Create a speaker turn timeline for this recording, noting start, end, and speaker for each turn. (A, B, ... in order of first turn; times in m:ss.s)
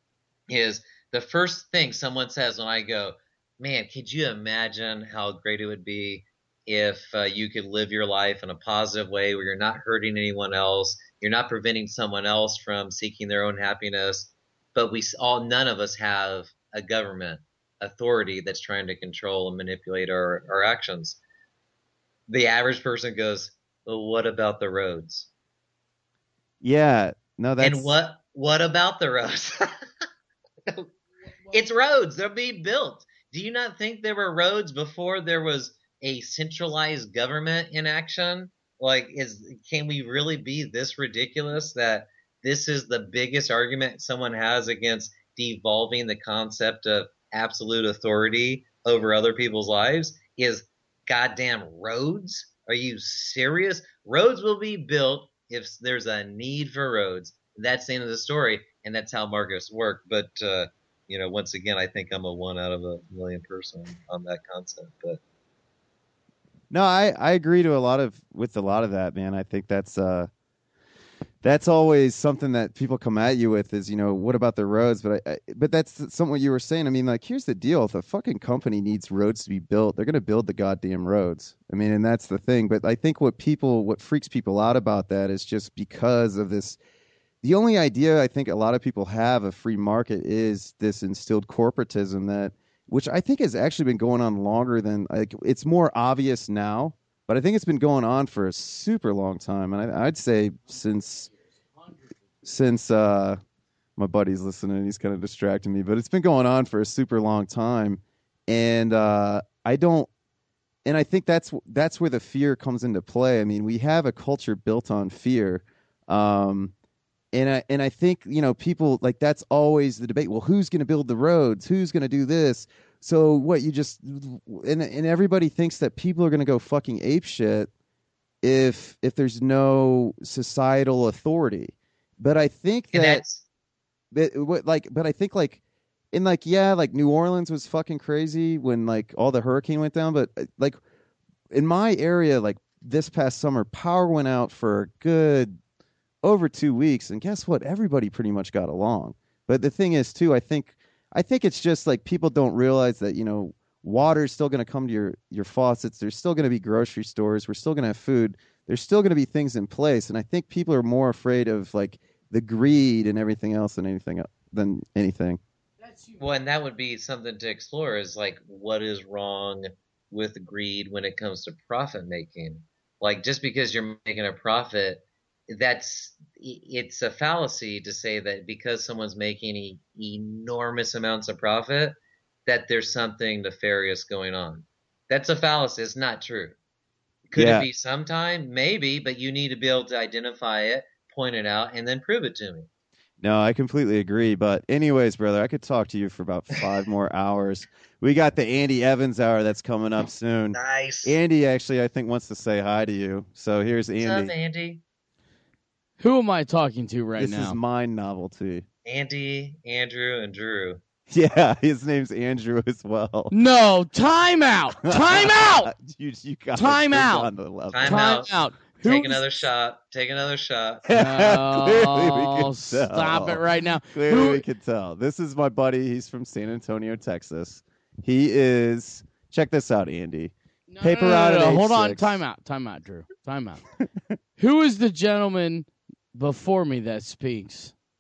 0:00.5-0:21.2 A
0:22.3-0:25.3 A
0:26.6-0:28.0 B
0:27.6-0:29.7 A
0:31.5-1:05.2 A
1:06.7-1:10.3 B
1:11.4-1:26.8 B
1:27.4-1:41.3 B
1:41.1-1:42.1 C
1:42.4-1:43.4 B
1:44.0-1:50.1 B
1:50.8-1:56.7 B
1:57.3-2:07.7 B
2:08.4-2:13.2 B
2:12.9-2:13.4 A
2:14.1-2:15.6 B
2:16.1-2:20.8 B
2:21.5-2:25.6 B
2:26.2-2:45.4 B
2:45.8-2:46.2 C
2:46.2-3:06.6 A
3:07.3-3:12.7 A
3:07.4-3:07.7 B
3:13.2-3:24.3 B
3:20.5-3:21.2 A
3:24.0-3:24.8 A
3:26.0-3:27.6 C
3:27.2-3:28.7 B
3:28.9-3:30.8 A
3:31.1-3:33.3 B
3:33.3-3:35.7 C
3:34.8-3:38.3 B
3:36.6-3:37.3 C
3:37.7-3:40.9 A
3:37.8-3:39.2 C
3:40.9-3:52.2 B
3:40.9-3:44.4 C
3:50.7-3:53.6 C
3:54.4-3:57.7 C